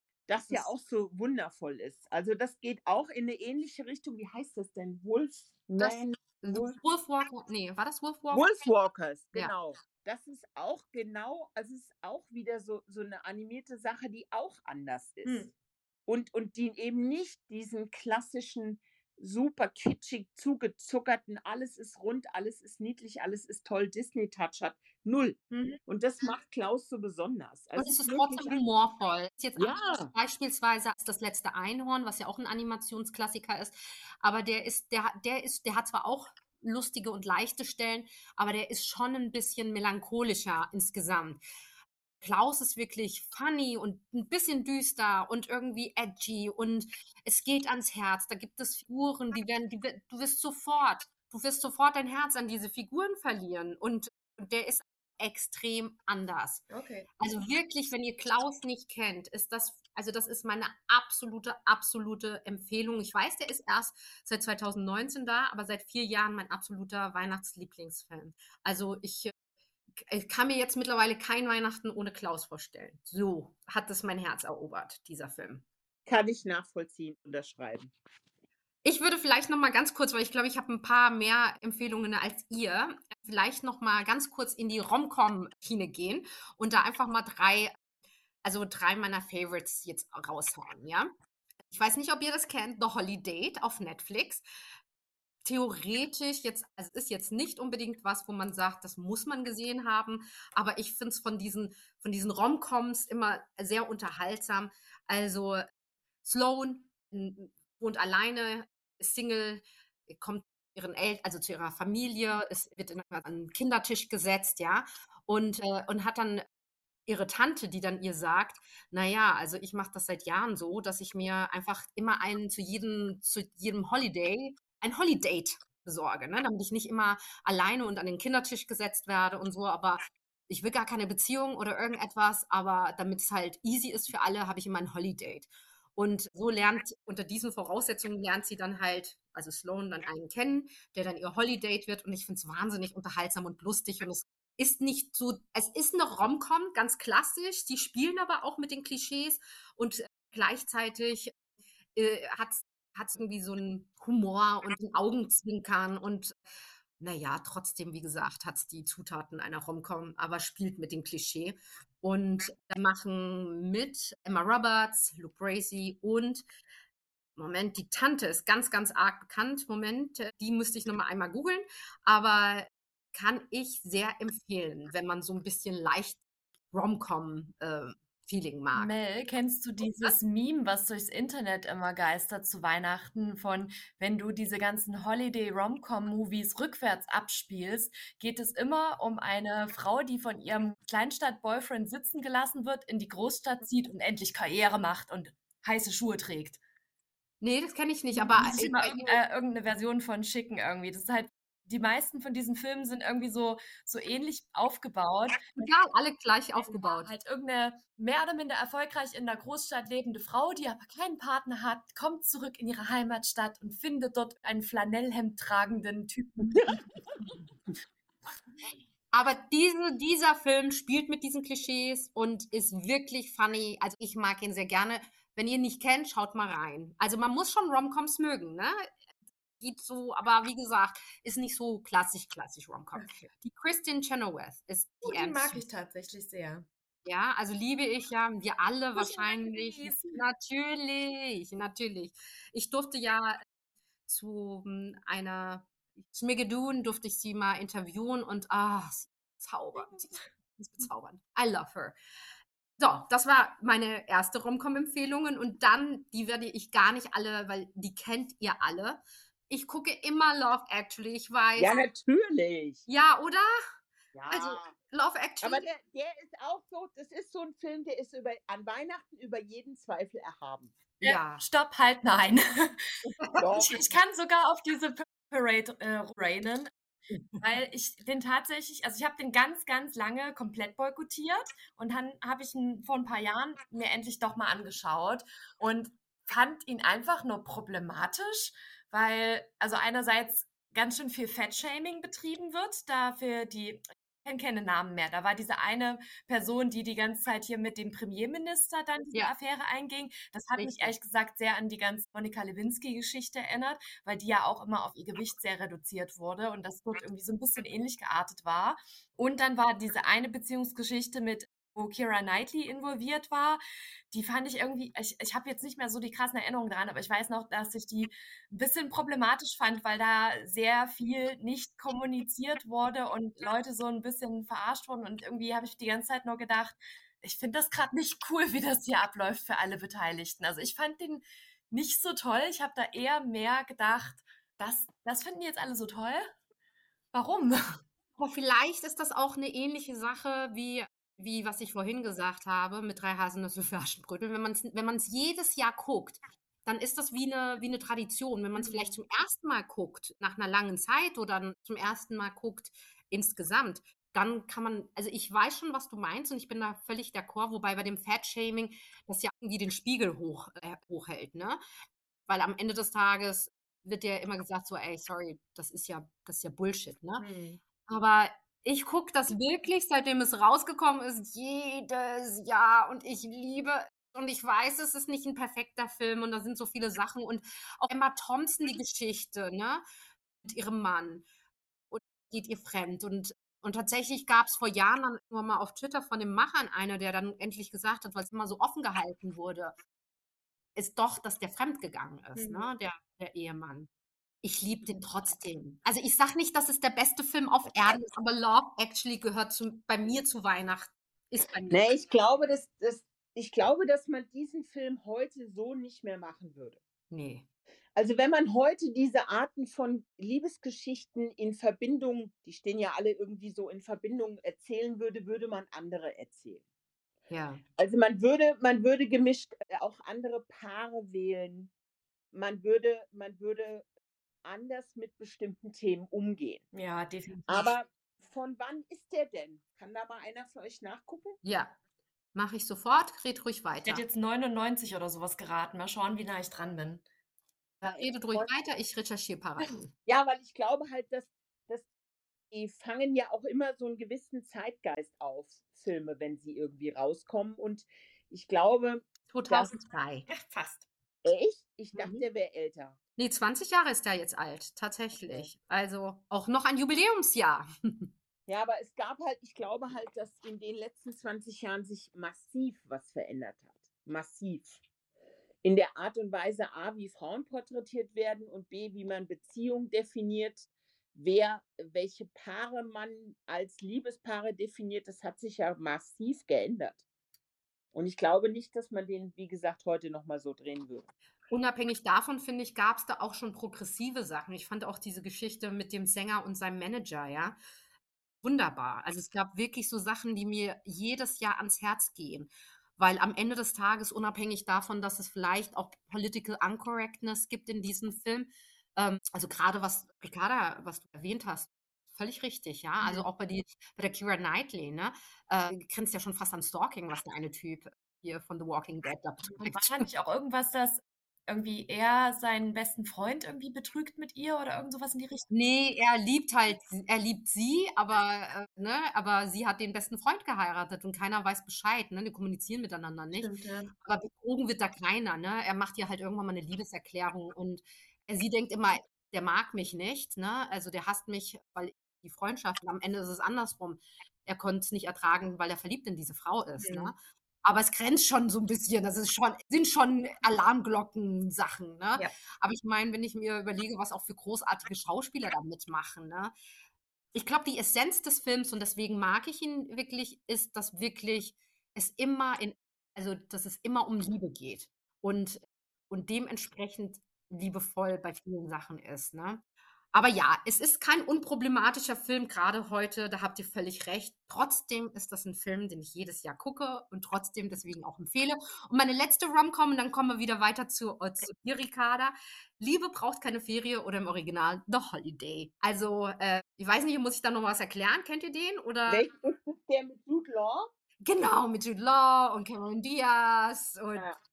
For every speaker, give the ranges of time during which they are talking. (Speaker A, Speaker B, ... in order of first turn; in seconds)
Speaker A: 0.3-6.8, 8.3-15.5, 16.1-28.6, 29.6-30.1, 76.1-77.9, 261.6-262.9, 264.1-264.7, 265.4-270.8, 273.4-273.9, 401.7-406.8, 408.0-416.6, 417.8-421.7, 422.3-423.9, 424.4-426.6, 427.5-431.4, 440.1-441.9, 442.5-449.7, 451.2-453.0, 455.2-455.5, 458.5-464.8, 465.6-477.0, 477.9-481.1, 579.1-580.9
Speaker B: 5.8-8.5, 27.8-41.4, 42.2-56.7, 57.2-69.3, 70.0-75.7, 78.8-87.8, 88.4-91.1, 91.7-94.5, 95.5-105.7, 106.2-116.5, 117.1-151.3, 151.9-156.4, 157.0-166.4, 167.4-176.2, 176.7-178.9, 197.4-199.2, 205.6-207.1, 219.1-228.9, 229.6-235.6, 237.1-243.4, 244.1-252.0, 252.8-261.8, 262.9-263.6, 264.3-265.7, 271.0-271.4, 273.0-273.5, 300.6-300.9, 338.2-361.6, 362.3-367.2, 367.9-379.8, 380.4-381.3, 381.9-389.8, 390.8-393.9, 394.4-401.8, 407.1-407.5, 417.3-417.6, 431.4-431.8, 432.4-434.1, 437.8-439.9, 449.3-450.3, 453.2-458.1, 481.5-487.6, 488.4-510.1, 515.5-546.5, 547.4-579.3, 581.2-584.3
Speaker C: 15.2-15.5, 25.5-25.8, 56.7-57.1, 178.7-196.6, 198.1-205.5, 206.6-216.8, 233.0-233.3, 235.0-236.7, 239.0-240.2, 271.0-276.7, 277.4-336.3, 337.1-337.8, 348.6-349.0, 367.2-367.6, 392.4-392.7, 426.7-427.7, 433.9-437.0, 450.3-450.9, 503.0-503.3, 509.5-515.5, 523.4-523.9, 536.8-537.1